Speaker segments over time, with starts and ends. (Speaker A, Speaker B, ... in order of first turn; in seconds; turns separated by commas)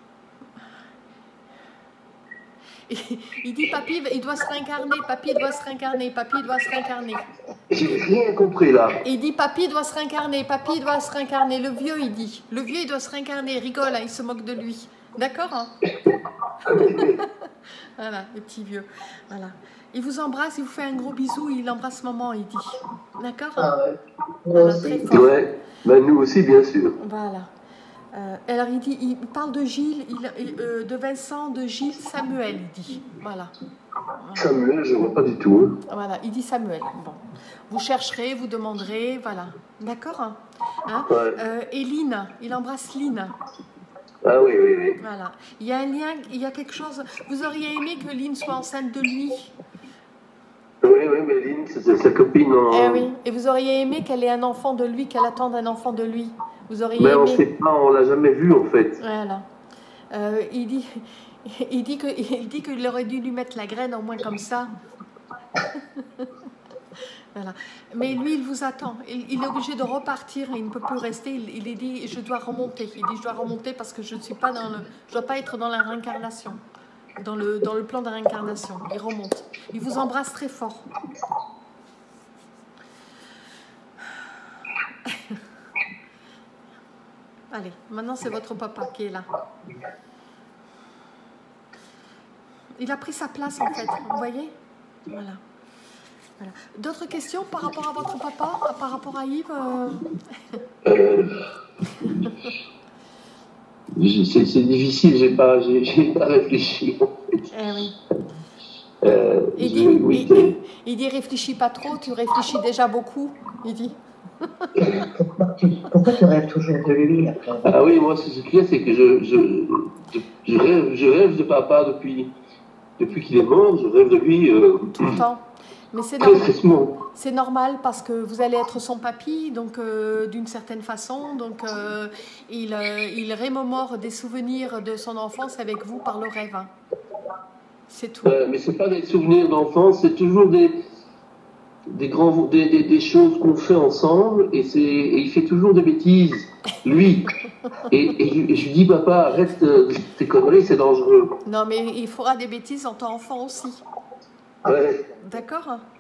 Speaker A: 2.9-7.2, Speaker B: 7.7-9.0, Speaker A: 9.0-15.7, Speaker B: 16.7-17.2, Speaker A: 16.7-23.7, Speaker C: 23.6-25.1, Speaker A: 24.5-25.4, Speaker B: 25.1-27.0, Speaker A: 27.0-27.5, Speaker A: 28.1-33.5, Speaker A: 34.2-34.5, Speaker B: 34.4-35.8, Speaker A: 35.9-43.3, Speaker B: 41.1-41.4, Speaker B: 44.2-45.0, Speaker A: 45.0-49.5, Speaker B: 50.8-53.1, Speaker A: 52.7-57.4, Speaker B: 57.0-59.0, Speaker A: 59.0-59.5, Speaker A: 60.1-64.7, Speaker A: 65.7-66.3, Speaker A: 67.3-76.6, Speaker A: 77.2-80.9, Speaker A: 85.1-85.4, Speaker A: 87.5-89.3, Speaker A: 92.8-94.5, Speaker A: 95.1-95.4, Speaker A: 96.4-100.6, Speaker B: 100.8-101.5, Speaker A: 101.9-102.3, Speaker B: 102.0-102.4, Speaker B: 103.9-107.4, Speaker A: 107.5-108.0, Speaker B: 109.0-110.5, Speaker A: 109.6-115.0, Speaker C: 114.8-117.8, Speaker B: 117.6-122.3, Speaker B: 123.0-125.2, Speaker A: 125.0-126.5, Speaker B: 126.2-127.0, Speaker A: 127.1-136.7, Speaker A: 137.9-138.3, Speaker B: 138.2-140.8, Speaker B: 141.9-151.3, Speaker A: 151.5-153.8, Speaker B: 154.7-155.1, Speaker A: 155.2-155.8